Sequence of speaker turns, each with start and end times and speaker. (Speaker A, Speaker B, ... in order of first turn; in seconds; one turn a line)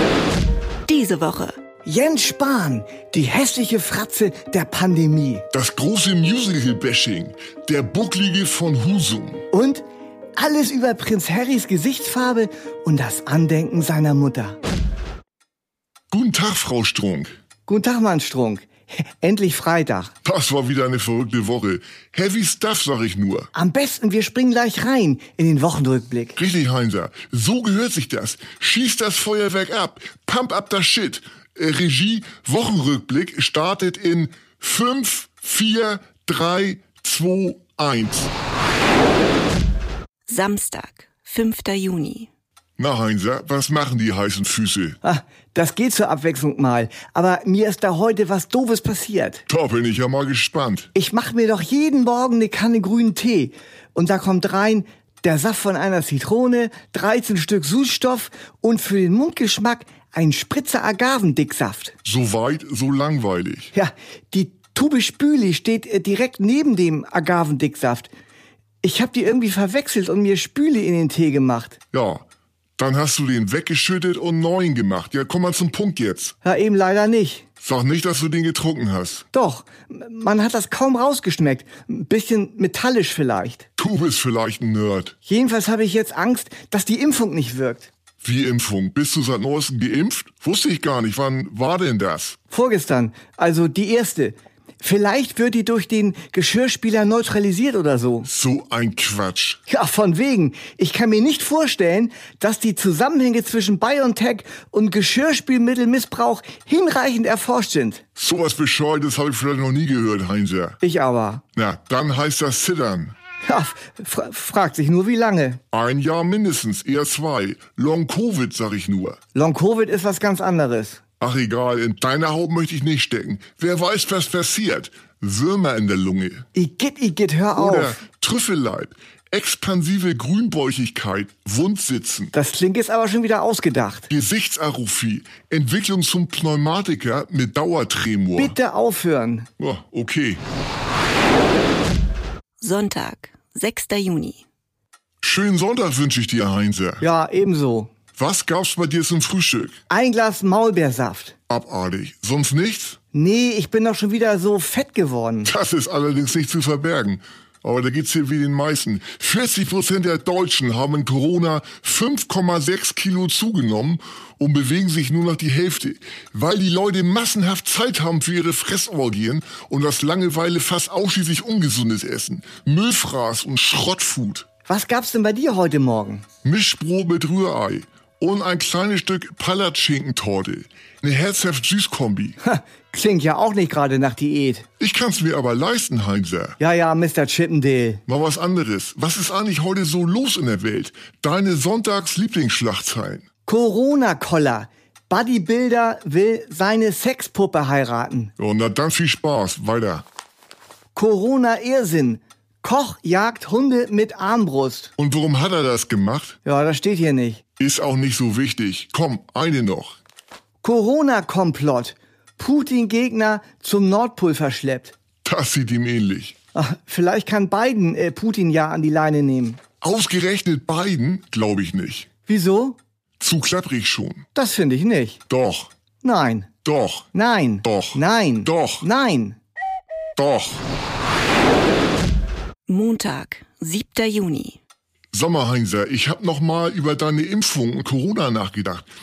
Speaker A: 0.9-1.6
Speaker B: 1.8-5.5
Speaker C: 5.5-9.4
Speaker B: 9.5-9.8
Speaker B: 10.4-14.6
Speaker C: 16.1-17.3
Speaker B: 17.7-20.1
Speaker C: 20.2-23.5
Speaker B: 23.5-26.4
Speaker C: 26.4-38.3
Speaker A: 40.3-42.3
Speaker C: 42.8-45.0
Speaker B: 45.0-49.4
Speaker C: 49.5-50.9
Speaker B: 50.9-61.9
Speaker C: 62.0-63.7
Speaker B: 63.7-68.1
Speaker B: 68.8-71.8
Speaker C: 71.9-72.2
Speaker C: 72.8-76.3
Speaker B: 76.4-77.4
Speaker C: 77.6-79.2
Speaker B: 79.3-83.6
Speaker C: 83.8-85.1
Speaker B: 85.2-87.9
Speaker C: 88.2-92.4
Speaker B: 92.5-98.3
Speaker C: 98.2-99.6
Speaker B: 99.7-108.0
Speaker C: 108.2-110.8
Speaker B: 110.8-111.4
Speaker C: 111.5-113.1
Speaker B: 113.4-115.6
Speaker C: 115.7-119.2
Speaker B: 119.3-121.0
Speaker C: 121.2-126.5
Speaker B: 126.5-128.0
Speaker C: 127.5-132.3
Speaker B: 132.3-134.1
Speaker C: 134.1-138.6
Speaker B: 138.4-139.5
Speaker C: 139.6-140.4
Speaker A: 142.6-144.4
Speaker C: 145.2-147.0
Speaker B: 147.0-147.9
Speaker C: 148.2-149.8
Speaker B: 149.9-151.3
Speaker C: 151.5-153.0
Speaker B: 153.1-155.5
Speaker C: 155.4-174.4
Speaker B: 174.7-176.2
Speaker C: 176.4-182.4
Speaker B: 182.4-184.7
Speaker C: 184.8-186.6
Speaker B: 186.6-188.0
Speaker C: 188.1-193.2
Speaker B: 193.4-198.3
Speaker C: 198.4-200.0
Speaker B: 200.9-204.9
Speaker C: 205.0-206.3
Speaker B: 206.4-207.4
Speaker C: 207.6-210.0
Speaker B: 210.6-214.9
Speaker C: 215.2-216.3
Speaker B: 216.5-219.6
Speaker C: 219.8-222.1
Speaker B: 222.3-222.8
Speaker C: 223.2-224.2
Speaker B: 224.3-225.2
Speaker C: 225.3-225.7
Speaker B: 226.0-226.5
Speaker C: 226.6-227.1
Speaker B: 227.1-229.4
Speaker C: 227.6-228.8
Speaker C: 230.2-230.6
Speaker A: 232.7-234.6
Speaker C: 235.1-238.9